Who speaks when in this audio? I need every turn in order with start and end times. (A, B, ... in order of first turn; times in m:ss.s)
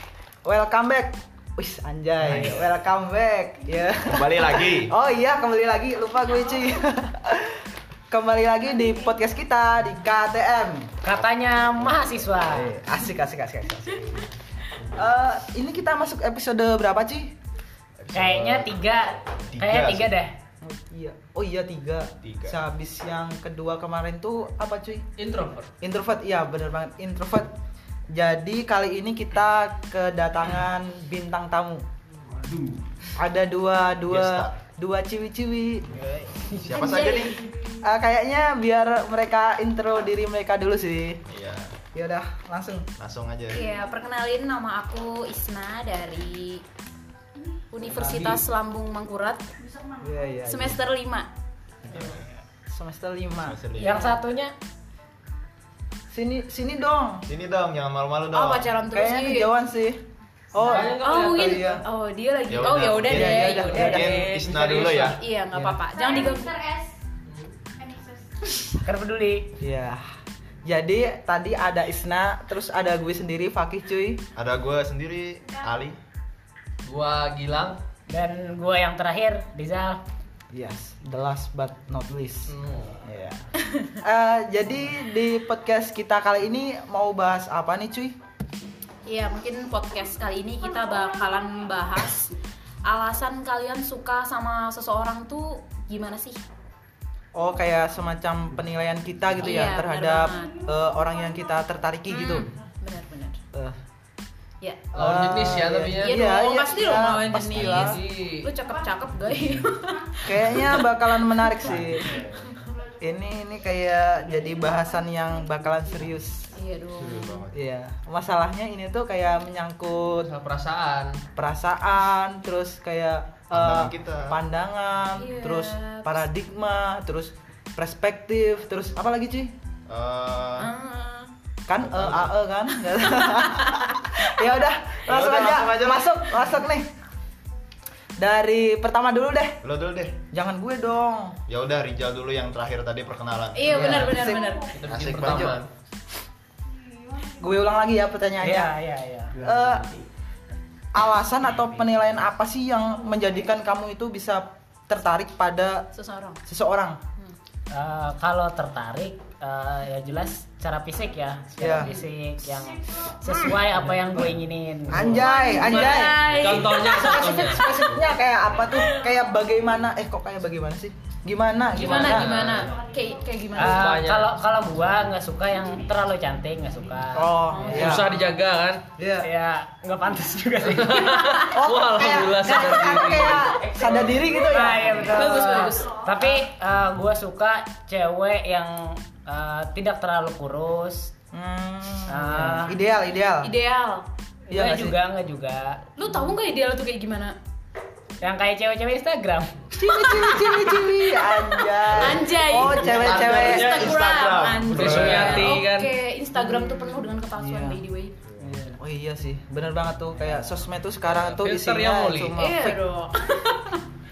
0:00.4-0:10.9 A
0:02.3-0:02.6 B
0:04.1-0:04.9 B
0:11.0-0:12.7 C
0:12.5-0:14.3 A
0:14.8-0:17.3 A
0:18.0-0:18.8 B
0:18.1-0:20.3 C
0:19.5-0:20.1 B
0:20.6-0:25.1 A
0:22.2-0:22.6 B
0:25.2-0:25.7 D
0:25.8-0:27.5 A
0:28.1-0:31.8 A
0:33.2-0:35.9 A
0:34.1-0:34.6 B
0:36.5-0:37.4 B
0:36.6-0:37.5 E
0:37.8-0:41.2 A
0:41.3-0:41.8 B
0:41.9-0:42.9 A
0:43.0-0:43.6 B
0:43.5-0:46.6 E
0:47.7-0:49.4 E
0:50.0-0:50.8 A
0:50.5-0:51.3 E
0:51.9-0:52.2 B
0:52.7-0:53.6 A
0:53.4-0:54.1 B
0:53.8-0:54.5 C
0:56.1-0:57.3 A
0:57.3-0:58.7 B
0:58.3-0:59.5 E
0:58.9-1:00.0 A
1:00.5-1:01.8 A
1:00.6-1:01.7 D
1:00.8-1:06.9 E
1:02.5-1:05.2 B
1:03.0-1:04.2 A
1:03.6-1:05.2 D
1:05.5-1:05.8 A
1:07.3-1:07.5 D
1:08.8-1:09.5 C
1:09.6-1:10.0 A
1:10.6-1:14.2 A
1:14.4-1:16.0 B
1:16.8-1:17.8 D
1:18.1-1:20.0 C
1:20.5-1:22.5 A
1:22.5-1:23.0 D
1:23.0-1:23.4 A
1:24.0-1:28.2 A
1:29.1-1:32.3 E
1:32.8-1:36.4 E
1:37.4-1:42.5 A
1:39.4-1:40.6 E
1:42.1-1:43.4 E
1:44.6-1:44.9 E
1:44.9-1:48.0 A
1:45.0-1:46.2 D
1:46.0-1:52.7 E
1:47.4-1:48.5 D
1:50.2-1:52.2 A
1:53.0-1:56.5 A
1:56.5-1:57.5 E
1:57.0-1:57.5 B
1:57.5-2:00.3 A
2:00.2-2:01.2 D
2:01.4-2:09.5 A
2:03.5-2:04.4 B
2:05.2-2:06.2 E
2:09.9-2:10.7 B
2:10.6-2:11.3 E
2:11.7-2:16.9 A
2:11.8-2:12.3 B
2:13.3-2:14.0 E
2:15.1-2:16.1 B
2:18.2-2:19.6 A
2:19.6-2:20.2 B
2:20.3-2:21.4 A
2:21.5-2:23.8 B
2:23.5-2:24.7 E
2:23.6-2:25.7 D
2:24.1-2:24.5 A
2:24.9-2:25.6 B
2:25.2-2:25.6 A
2:27.4-2:28.7 A
2:28.4-2:29.4 C
2:29.4-2:29.9 A
2:30.9-2:35.9 A
2:35.9-2:36.4 E
2:36.5-2:37.0 A
2:37.7-2:45.4 C
2:41.6-2:41.9 A
2:44.9-2:52.5 A
2:45.1-2:47.7 E
2:45.6-2:47.7 D
2:51.8-2:53.9 E
2:51.8-2:52.7 D
2:53.6-2:58.0 C
2:53.6-2:54.3 D
2:57.2-2:58.1 A
2:57.5-2:58.3 E
2:57.7-2:58.8 D
2:59.0-2:59.3 A
2:59.2-3:01.2 C
3:00.6-3:04.2 D
3:01.5-3:05.2 A
3:04.2-3:11.1 C
3:05.0-3:06.1 E
3:11.3-3:13.5 A
3:12.1-3:12.8 C
3:13.4-3:14.0 E
3:14.5-3:15.8 C
3:14.5-3:15.0 A
3:16.0-3:17.4 E
3:18.2-3:19.5 C
3:19.8-3:23.7 A
3:20.1-3:28.1 E
3:22.8-3:25.3 B
3:23.5-3:23.9 D
3:24.7-3:25.9 D
3:26.4-3:26.8 A
3:27.4-3:27.8 A
3:28.6-3:32.8 A
3:31.0-3:32.4 D
3:32.4-3:33.8 E